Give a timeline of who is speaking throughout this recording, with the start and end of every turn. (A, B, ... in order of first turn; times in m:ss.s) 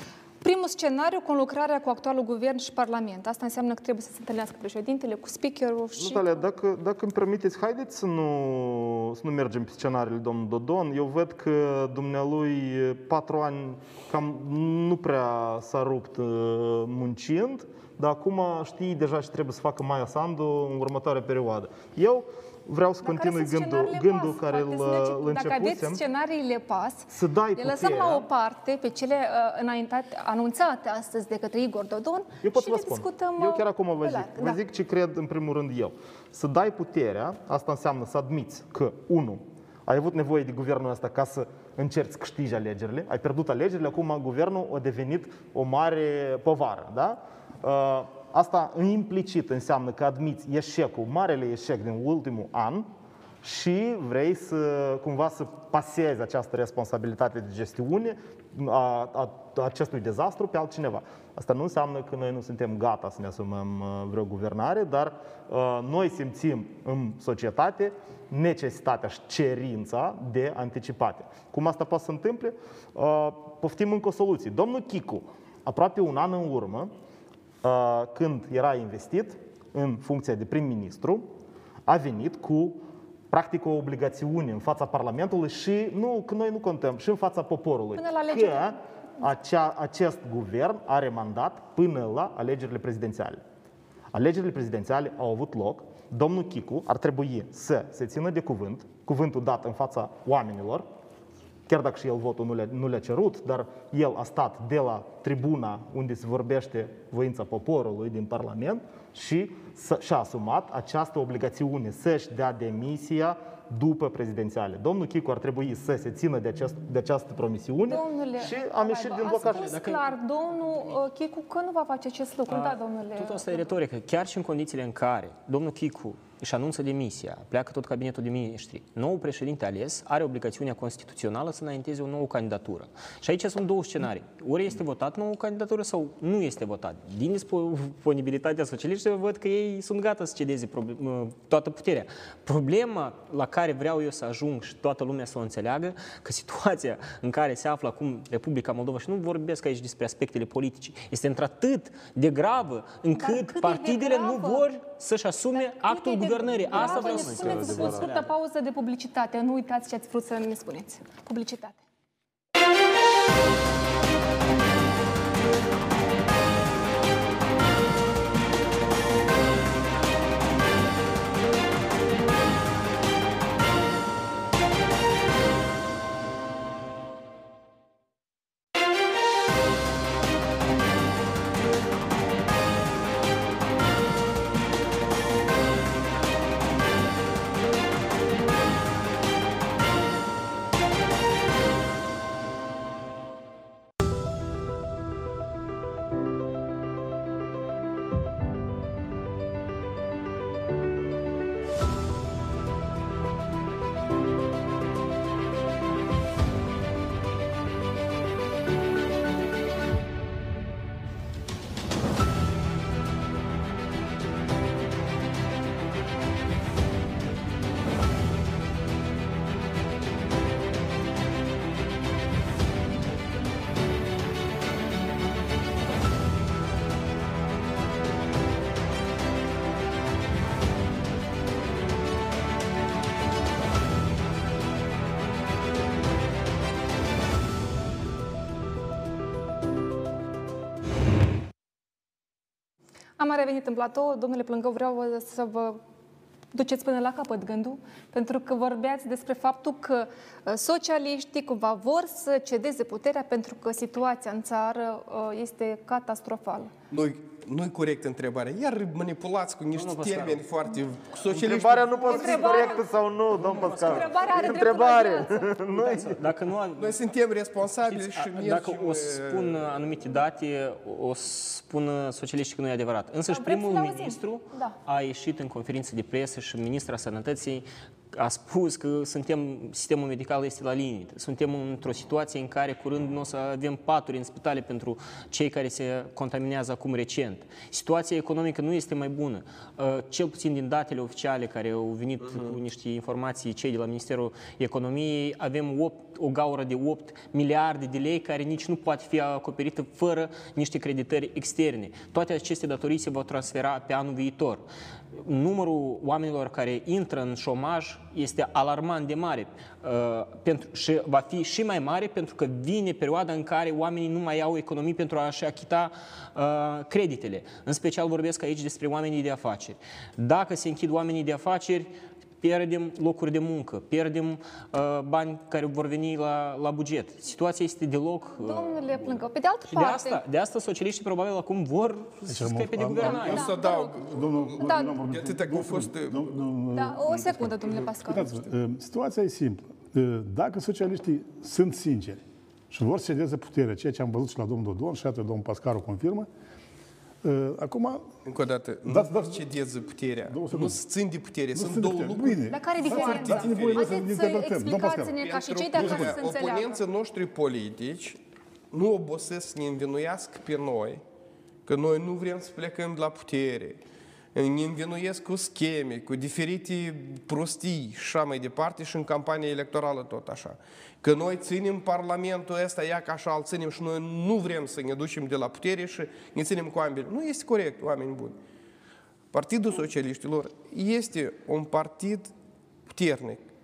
0:00.4-0:06.4 A
0:06.0-0:26.0 B
0:23.0-0:34.6 A
0:27.1-0:28.3 B
0:32.4-0:52.9 B
0:53.4-1:16.9 B
1:17.6-1:21.3 B
1:21.8-1:33.4 B
1:28.0-1:28.8 A
1:34.1-1:40.8 B
1:41.7-1:59.8 B
1:57.9-2:03.7 A
1:59.4-2:00.1 C
2:02.5-2:38.3 C
2:33.2-2:34.7 A
2:35.5-2:41.8 A
4:03.2-4:05.8 A
4:06.5-4:16.7 A
4:16.9-4:22.8 D
4:19.7-4:20.4 C
4:21.3-4:26.2 B
4:22.1-4:22.8 A
4:23.3-4:24.9 C
4:23.6-4:25.5 A
4:25.7-4:27.0 C
4:26.8-4:29.6 D
4:27.8-5:33.4 C
4:33.3-4:34.7 A
5:28.4-5:30.2 A
5:32.3-5:46.3 E
5:33.0-5:36.4 D
5:33.0-5:34.0 A
5:34.6-5:35.0 A
5:36.7-5:38.3 A
5:47.2-5:48.1 E
5:48.2-5:54.0 D
5:48.8-5:49.4 E
5:50.3-5:50.8 E
5:51.5-5:55.2 E
5:52.5-5:56.8 A
5:55.2-5:58.2 D
5:55.7-5:56.2 E
5:58.7-6:01.0 D
6:01.6-6:03.8 D
6:04.3-6:18.4 D
6:19.3-6:22.3 D
6:22.9-6:23.4 D